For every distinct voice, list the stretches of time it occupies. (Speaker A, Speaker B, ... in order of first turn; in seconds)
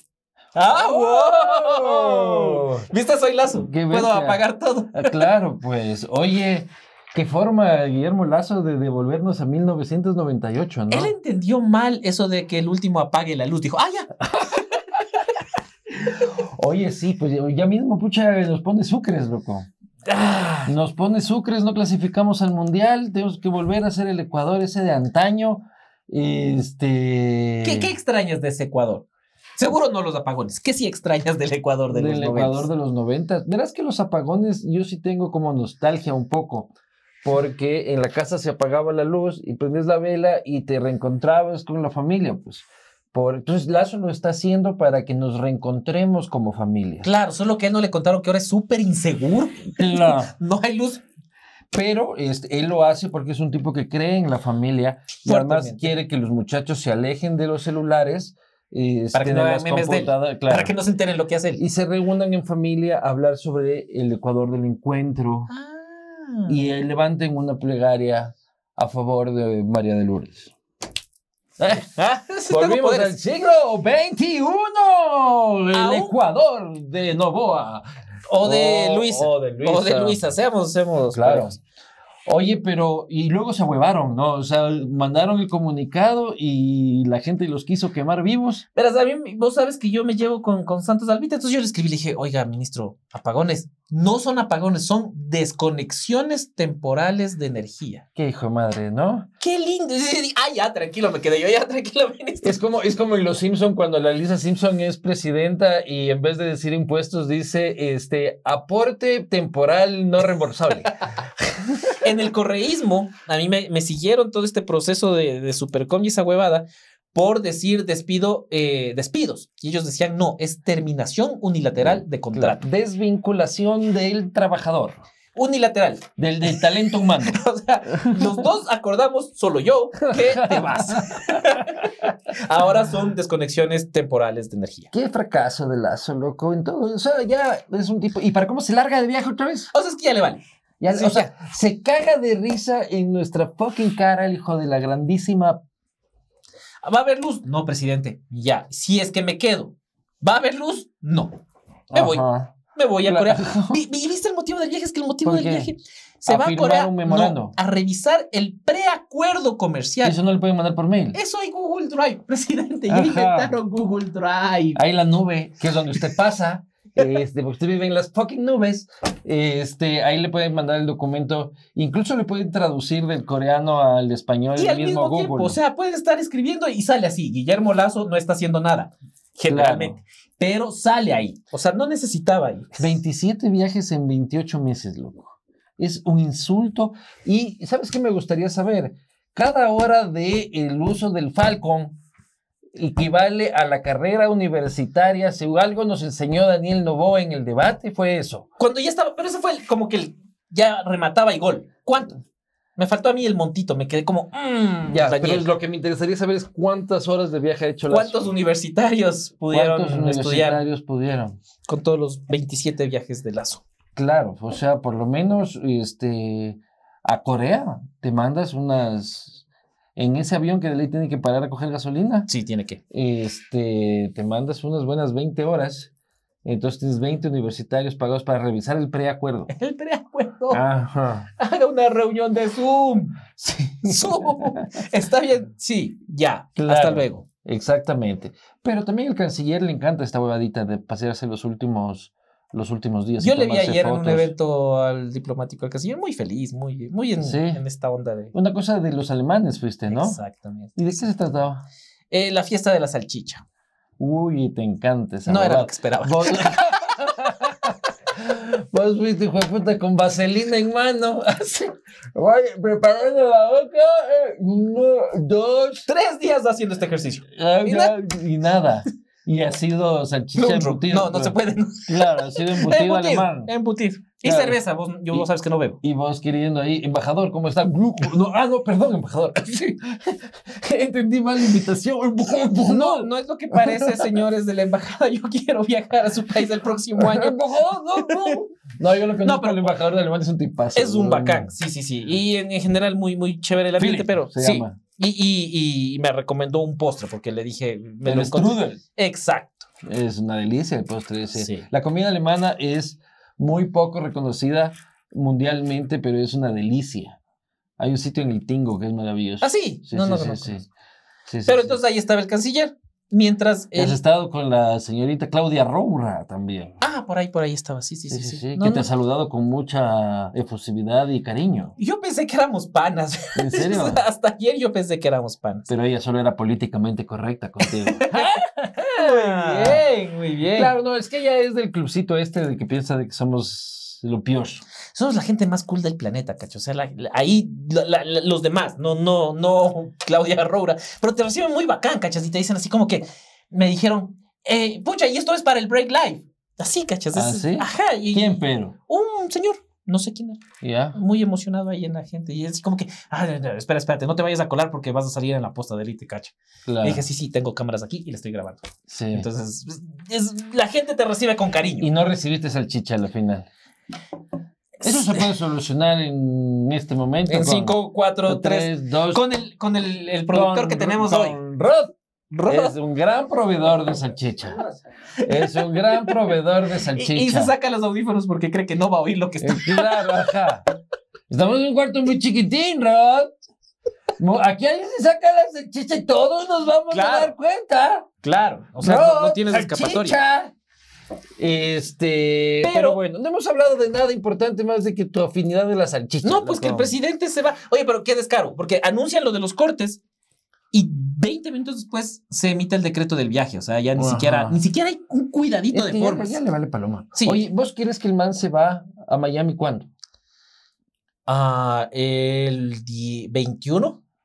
Speaker A: 0.6-5.3, 10.9-14.6, 20.1-20.7, 27.6-32.7, 47.0-51.0, 55.2-55.9, 59.1-61.6, 65.5-66.8, 71.7-73.2, 75.7-76.2, 78.3-81.6, 88.8-98.0, 99.4-102.6, 112.0-122.6, 125.3-134.9, 139.7-140.4, 140.9-141.3, 146.8-151.4, 151.9-160.2, 161.1-164.8, 174.6-182.8, 198.6-202.2, 202.8-205.5, 207.9-210.6, 211.7-213.6, 222.3-222.8, 229.5-230.6, 231.4-237.2, 243.2-248.3, 249.9-250.8, 252.1-253.4, 255.3-257.0, 265.9-268.0, 270.4-275.8, 282.6-288.4, 289.2-289.8, 290.8-299.6, 301.4-301.7, 309.4-310.6, 311.4-314.0, 316.8-318.9, 321.8-325.7, 327.6-328.3, 328.9-330.7, 334.9-350.4, 350.9-361.9, 364.8-365.4, 367.3-371.4, 372.3-372.8, 375.2-380.3, 386.9-387.3, 388.2-390.2, 392.6-393.0, 396.2-400.0, 400.7-406.4, 407.1-407.4, 411.3-414.0
Speaker B: 0.7-2.9, 3.5-4.4, 4.9-11.1, 16.0-19.7, 20.7-27.9, 31.9-36.7, 37.2-47.1, 49.8-50.3, 51.7-60.7, 61.6-65.5, 66.5-70.5, 71.6-71.9, 72.5-77.8, 78.4-80.2, 81.1-81.6, 82.3-88.7, 98.2-99.3, 102.4-112.0, 121.8-125.0, 126.2-127.4, 128.0-128.5, 130.0-132.1, 134.9-139.7, 140.8-145.6, 151.9-153.8, 155.2-155.7, 156.3-157.5, 160.0-161.2, 162.9-163.6, 164.8-175.6, 179.5-180.0, 182.8-192.0, 192.8-198.5, 204.9-208.2, 209.5-211.4, 214.0-219.4, 220.0-222.3, 222.9-225.9, 226.4-229.5, 230.5-231.3, 233.4-234.6, 236.6-244.3, 247.2-247.6, 248.3-250.2, 250.8-251.7, 254.0-265.9, 267.3-273.5, 274.2-274.6, 275.8-283.9, 287.0-291.5, 293.8-294.8, 298.1-298.8, 299.8-307.2, 307.8-310.7, 311.3-311.8, 313.8-316.8, 318.1-321.7, 323.4-324.0, 325.7-329.9, 330.5-334.6, 347.1-348.8, 350.6-351.0, 356.7-357.1, 358.9-359.3, 361.8-363.5, 364.8-369.2, 370.3-371.9, 372.5-374.6, 375.2-377.5, 379.4-380.7, 381.3-383.3, 384.2-388.1, 388.8-390.5, 391.4-396.9, 403.9-404.6, 405.7-409.9